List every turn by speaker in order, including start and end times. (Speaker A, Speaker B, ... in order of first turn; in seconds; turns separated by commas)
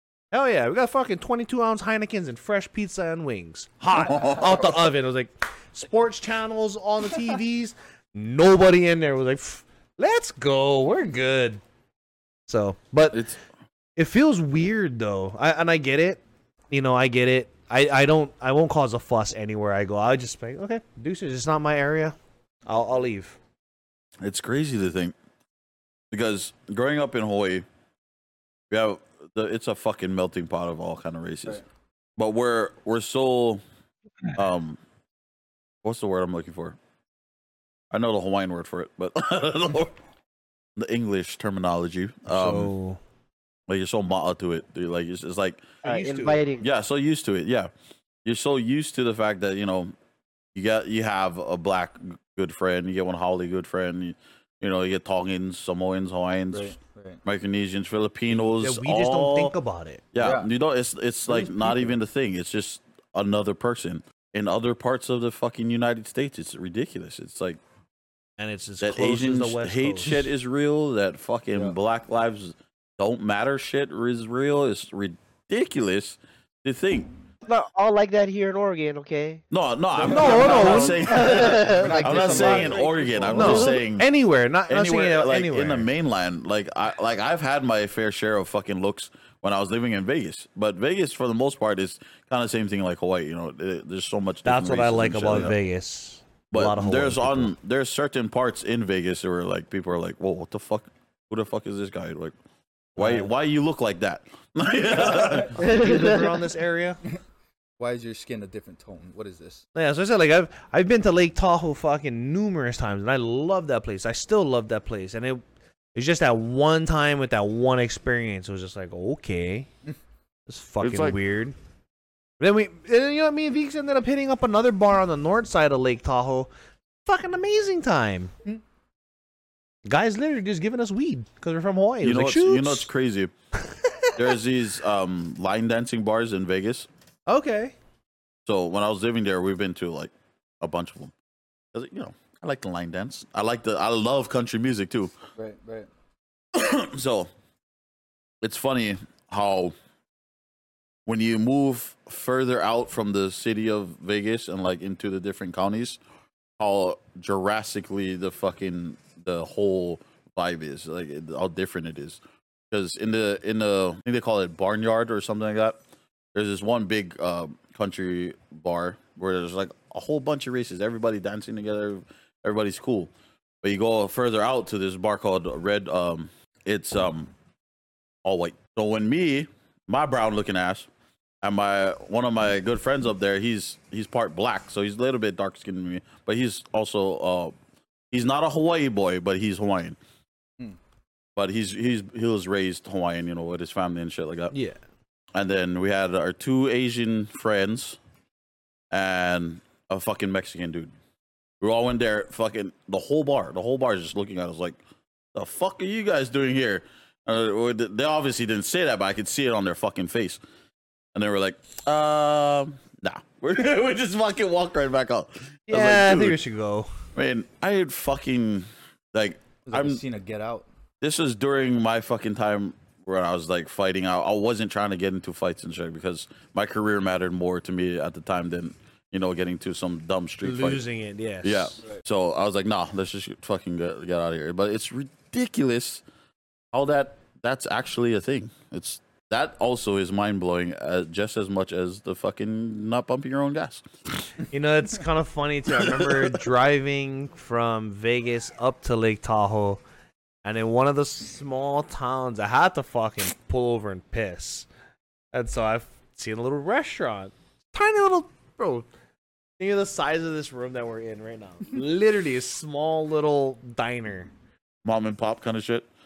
Speaker A: 0.3-11.6, Speaker B: 4.0-4.8, Speaker A: 12.5-13.2, Speaker B: 13.1-13.4, Speaker A: 14.0-23.4, Speaker B: 24.2-25.2, Speaker B: 26.1-27.7, Speaker B: 28.7-31.6, Speaker B: 32.2-33.6, Speaker B: 34.4-34.8, Speaker B: 35.8-36.8, Speaker B: 37.9-40.0, Speaker B: 40.8-42.7, Speaker A: 42.3-43.0, Speaker B: 43.7-45.7, Speaker A: 45.8-46.4, Speaker C: 45.8-46.7, Speaker B: 46.6-47.7, Speaker B: 48.2-49.9, Speaker B: 50.5-59.5, Speaker D: 56.5-57.2, Speaker A: 58.3-60.0, Speaker B: 60.1-67.6, Speaker D: 60.2-60.5, Speaker D: 61.3-62.0, Speaker A: 68.4-70.3, Speaker B: 68.8-77.1, Speaker C: 77.5-79.5, Speaker B: 79.5-84.1, Speaker D: 80.0-83.7, Speaker A: 80.0-85.9, Speaker C: 80.1-82.9, Speaker B: 84.7-95.6, Speaker A: 94.5-97.5, Speaker B: 96.5-102.3, Speaker A: 103.0-103.3, Speaker B: 103.0-105.6, Speaker A: 105.5-107.0, Speaker C: 105.6-106.3, Speaker D: 107.8-109.6, Speaker A: 109.8-115.4, Speaker A: 116.0-119.7, Speaker A: 120.5-121.5, Speaker B: 120.8-121.2, Speaker A: 122.4-126.5, Speaker A: 127.0-128.3, Speaker A: 129.9-132.9, Speaker B: 132.0-133.3, Speaker B: 134.2-136.9, Speaker A: 137.3-137.7, Speaker B: 138.5-141.1, Speaker B: 141.7-145.2, Speaker D: 145.4-145.9, Speaker B: 146.5-147.3, Speaker B: 148.4-149.7, Speaker B: 151.1-156.0, Speaker B: 156.6-165.8, Speaker B: 166.3-173.1, Speaker B: 173.6-177.3, Speaker B: 178.2-180.9, Speaker B: 181.4-187.6, Speaker B: 188.1-190.0, Speaker B: 191.4-194.6, Speaker A: 194.5-194.8, Speaker B: 195.3-198.0, Speaker B: 198.9-200.9, Speaker B: 201.6-204.8, Speaker B: 205.3-210.4, Speaker B: 211.2-216.4, Speaker A: 215.7-216.9, Speaker B: 217.2-220.0, Speaker D: 219.7-220.7, Speaker B: 221.0-230.8, Speaker A: 230.4-231.8, Speaker B: 231.4-236.0, Speaker B: 236.7-244.3, Speaker A: 244.5-249.8, Speaker B: 245.8-246.1, Speaker A: 250.4-254.7, Speaker A: 255.3-258.9, Speaker A: 259.6-264.3, Speaker B: 264.9-265.9